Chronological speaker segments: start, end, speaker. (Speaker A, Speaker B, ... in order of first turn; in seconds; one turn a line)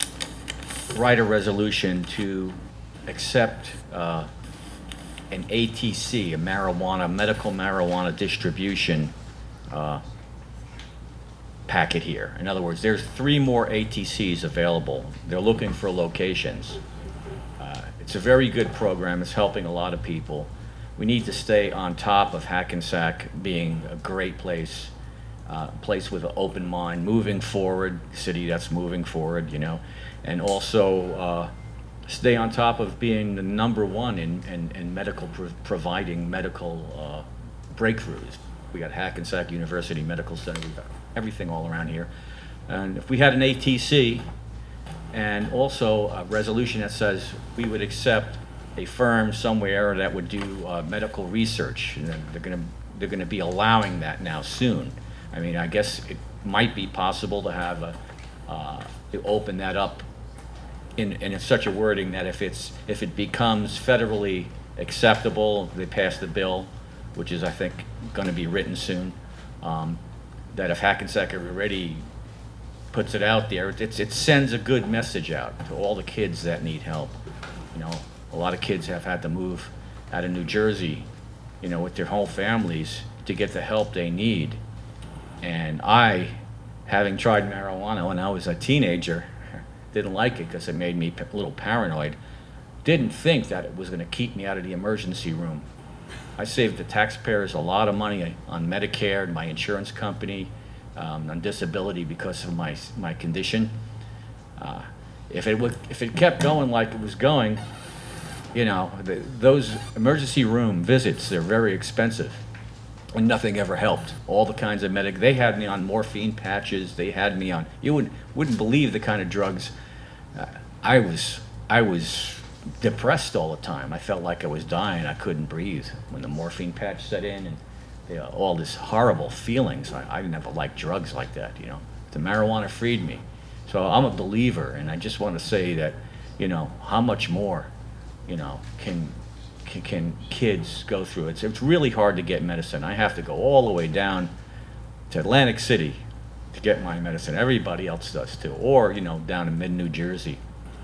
Speaker A: 0.9-4.3
Speaker A: 5.3-9.1
Speaker A: 9.7-10.0
Speaker A: 11.7-16.8
Speaker A: 17.6-24.9
Speaker A: 25.5-31.5
Speaker A: 32.1-42.1
Speaker A: 42.7-44.2
Speaker A: 45.1-58.0
Speaker A: 58.5-60.1
Speaker A: 61.0-70.0
Speaker A: 70.5-72.0
Speaker A: 72.9-77.2
Speaker A: 77.8-81.1
Speaker A: 81.6-84.6
Speaker A: 85.4-89.3
Speaker A: 89.9-92.2
Speaker A: 92.8-95.6
Speaker A: 96.4-103.7
Speaker A: 104.6-107.6
Speaker A: 108.5-112.4
Speaker A: 113.2-119.7
Speaker A: 120.3-137.7
Speaker A: 138.3-144.3
Speaker A: 145.1-146.0
Speaker A: 146.5-150.4